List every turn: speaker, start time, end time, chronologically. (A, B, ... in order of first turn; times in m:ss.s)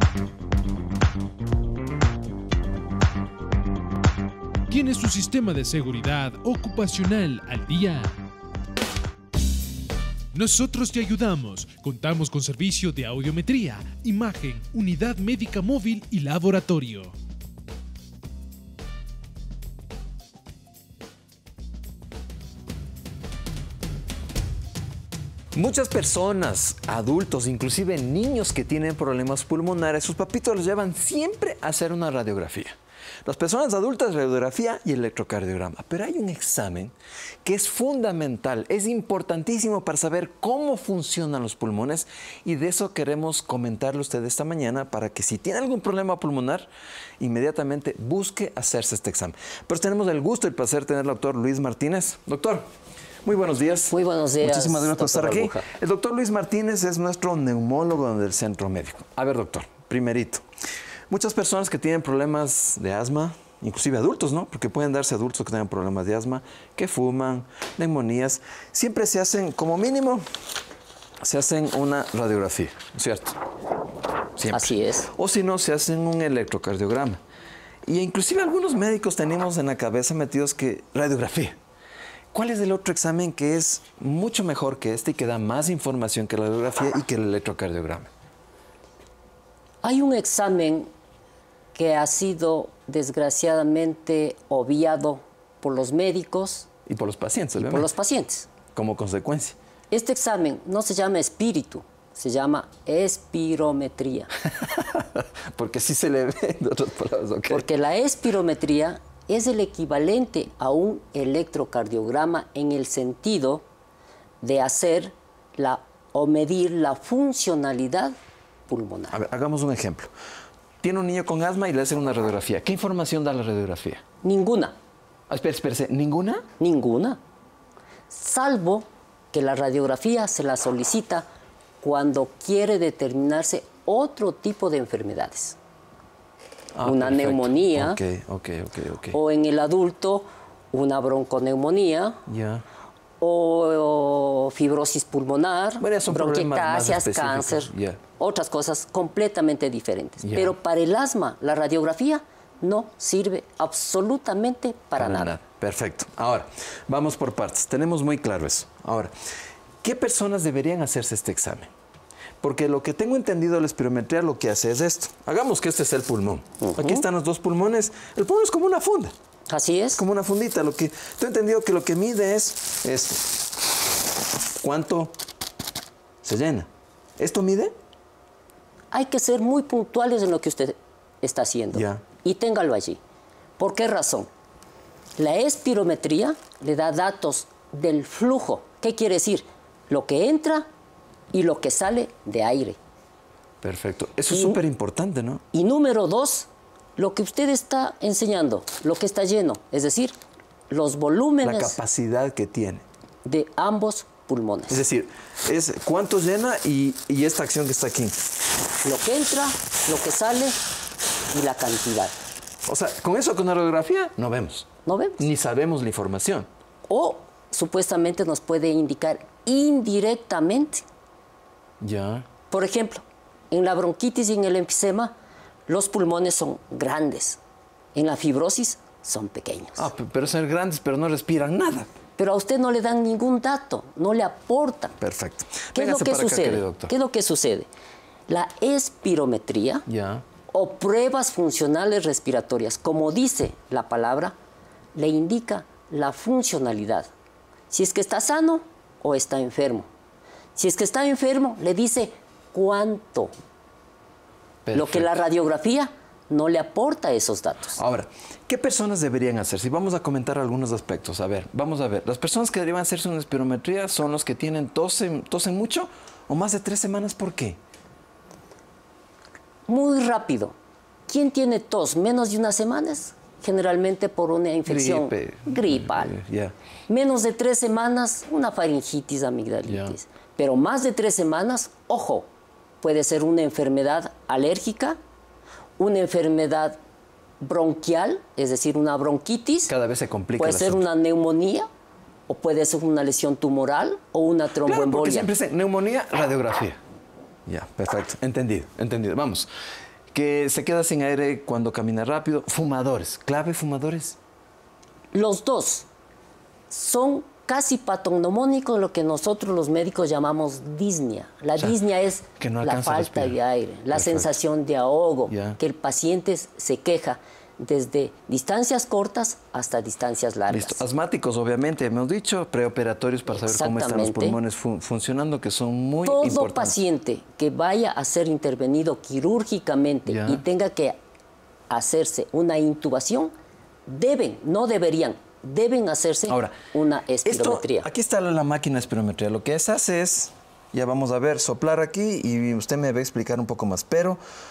0:04.7-0:08.2 A
0:10.3-0:17.1 A
0:25.6-0:46.7 B
0:47.2-0:52.6 B
0:53.2-1:00.4 B
0:53.9-0:55.7 C
1:01.1-1:10.2 B
1:11.2-1:13.4 B
1:14.4-1:17.2 B
1:14.5-1:15.1 C
1:17.9-1:21.6 B
1:22.3-1:28.1 B
1:29.8-1:30.9 C
1:31.7-1:36.7 C
1:36.9-1:37.9 B
1:37.6-1:38.5 C
1:38.7-1:39.6 B
1:39.9-1:44.3 C
1:44.6-1:47.7 B
1:47.5-1:53.6 C
1:54.4-1:58.2 C
1:58.7-1:59.2 C
1:59.1-2:00.1 B
2:00.8-2:04.0 B
2:04.2-2:04.8 C
2:05.3-2:06.4 B
2:06.6-2:07.2 C
2:08.1-2:11.3 C
2:11.8-2:15.6 C
2:16.8-2:19.2 B
2:16.8-2:18.0 C
2:19.1-2:22.2 C
2:22.3-2:22.6 B
2:23.2-2:35.4 C
2:25.8-2:28.0 B
2:30.2-2:30.6 B
2:35.0-2:39.1 B
2:39.8-2:41.7 B
2:42.4-2:49.1 B
2:46.6-2:47.0 C
2:49.5-2:50.0 C
2:50.0-2:53.3 B
2:54.6-2:55.1 B
2:56.2-2:57.7 B
2:58.9-3:03.0 C
3:01.7-3:02.0 B
3:03.6-3:04.3 C
3:05.2-3:10.6 C
3:11.3-3:12.8 C
3:13.6-3:15.4 B
3:14.3-3:14.6 C
3:15.5-3:20.2 C
3:20.7-3:21.8 C
3:21.4-3:22.8 B
3:23.2-3:24.8 C
3:24.7-3:28.2 B
3:28.8-3:30.6 C
3:31.3-3:32.1 C
3:32.6-3:34.7 B
3:34.8-3:35.3 C
3:35.2-3:36.5 B
3:36.9-3:40.8 C
3:41.8-3:42.3 B
3:42.5-3:45.2 C
3:45.7-3:47.4 C
3:47.9-3:49.9 C
3:49.8-3:51.9 B
3:52.2-3:55.0 C
3:55.0-3:56.9 B
3:55.7-3:57.7 C
3:58.3-3:59.9 C
3:59.9-4:00.2 B
4:00.5-4:04.4 C
4:04.9-4:07.1 C
4:07.7-4:09.9 C
4:10.6-4:13.3 C
4:14.6-4:15.2 B
4:14.7-4:17.8 C
4:17.8-4:27.6 B
4:29.7-4:30.6 C
4:31.1-4:36.2 C
4:34.6-4:36.5 B
4:36.9-4:42.3 C
4:39.6-4:40.0 B
4:42.8-4:45.0 C
4:45.8-4:46.8 C
4:47.4-4:49.7 C
4:49.7-4:50.8 B
4:50.4-4:51.7 C
4:52.3-4:55.3 C
4:54.6-4:56.8 B
4:57.5-4:59.5 B
5:00.1-5:04.2 B
5:05.1-5:05.9 C
5:06.7-5:20.8 C
5:12.4-5:13.4 B
5:13.9-5:14.4 B
5:15.3-5:15.6 B
5:20.5-5:26.8 B
5:23.3-5:24.4 C
5:26.0-5:31.0 C
5:30.1-5:30.4 B
5:31.7-5:33.3 C
5:33.9-5:37.9 C
5:36.3-5:36.6 B
5:37.2-5:44.2 B